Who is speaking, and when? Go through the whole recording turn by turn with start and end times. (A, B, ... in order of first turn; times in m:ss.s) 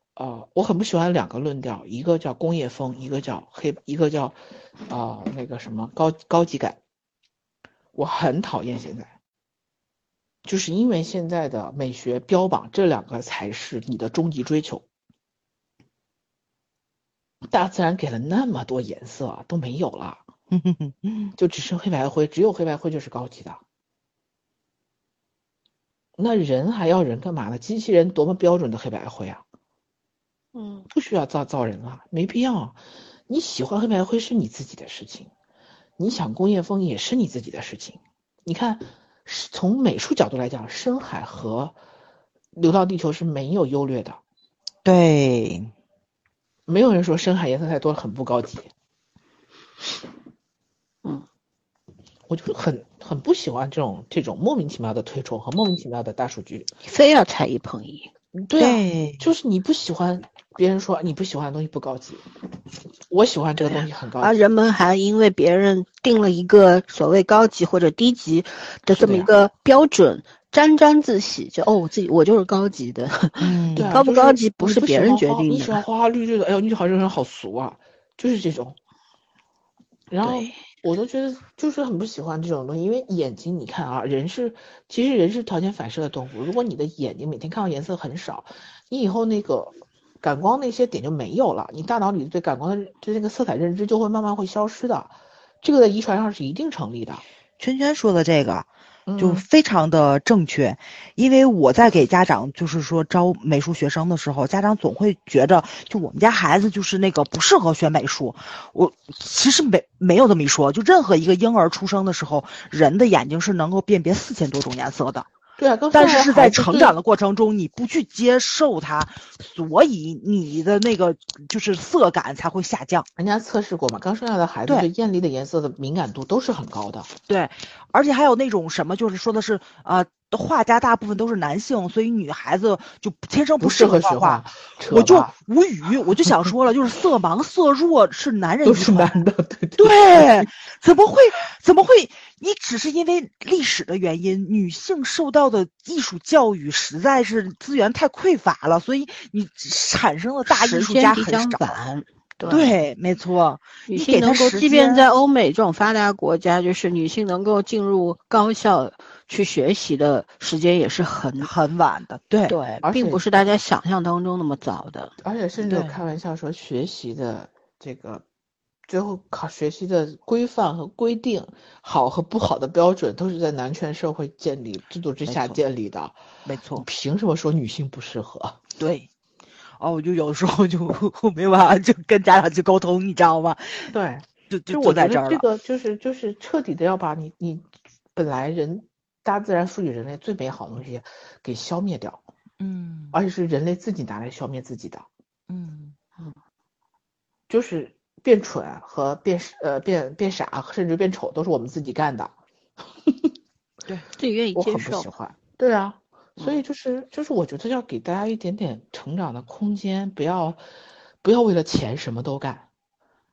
0:00.2-0:06.8 A
0:08.0-0:09.1 A
0:10.4-0:14.8 A
0:17.5-0:20.3 A
0:20.5-0:21.3 B
0:21.4-0:23.6 A
0:26.2-0:29.4 A
0:30.5-0:30.9 C
0:30.9-0:35.3 A
0:36.0-0:41.8 A
0:42.5-0:44.2 A
0:44.8-0:45.7 B
0:46.7-0:48.7 A
0:52.3-0:56.7 A
0:56.8-0:58.1 C
0:58.4-1:02.3 A
0:58.6-0:59.2 B
1:03.1-1:04.4 A
1:03.7-1:15.8 C
1:09.0-1:09.3 A
1:13.4-1:14.0 B
1:13.8-1:18.8 A
1:20.1-1:37.2 A
1:20.2-1:20.6 C
1:37.6-1:55.3 B
1:39.1-1:39.5 A
1:55.6-1:57.0 A
1:55.9-2:03.1 B
2:03.2-2:07.1 A
2:07.3-2:19.2 B
2:13.6-2:15.3 A
2:18.6-2:20.5 A
2:19.8-2:31.8 B
2:30.5-2:32.7 C
2:32.5-2:35.0 B
2:33.9-2:41.5 C
2:41.4-2:42.6 B
2:42.5-2:45.1 C
2:42.8-2:43.2 A
2:45.2-2:48.2 A
2:45.6-2:46.0 B
2:48.9-2:56.2 A
2:55.3-2:55.6 B
2:56.4-2:56.9 B
2:56.7-2:58.6 A
2:58.8-2:59.1 B
2:59.8-3:03.9 B
3:03.9-3:12.2 A
3:04.5-3:05.4 B
3:12.6-3:13.2 B
3:13.1-3:15.1 A
3:15.5-3:16.0 B
3:17.5-3:22.4 A
3:24.2-3:25.1 C
3:24.6-3:30.6 A
3:31.2-3:32.7 A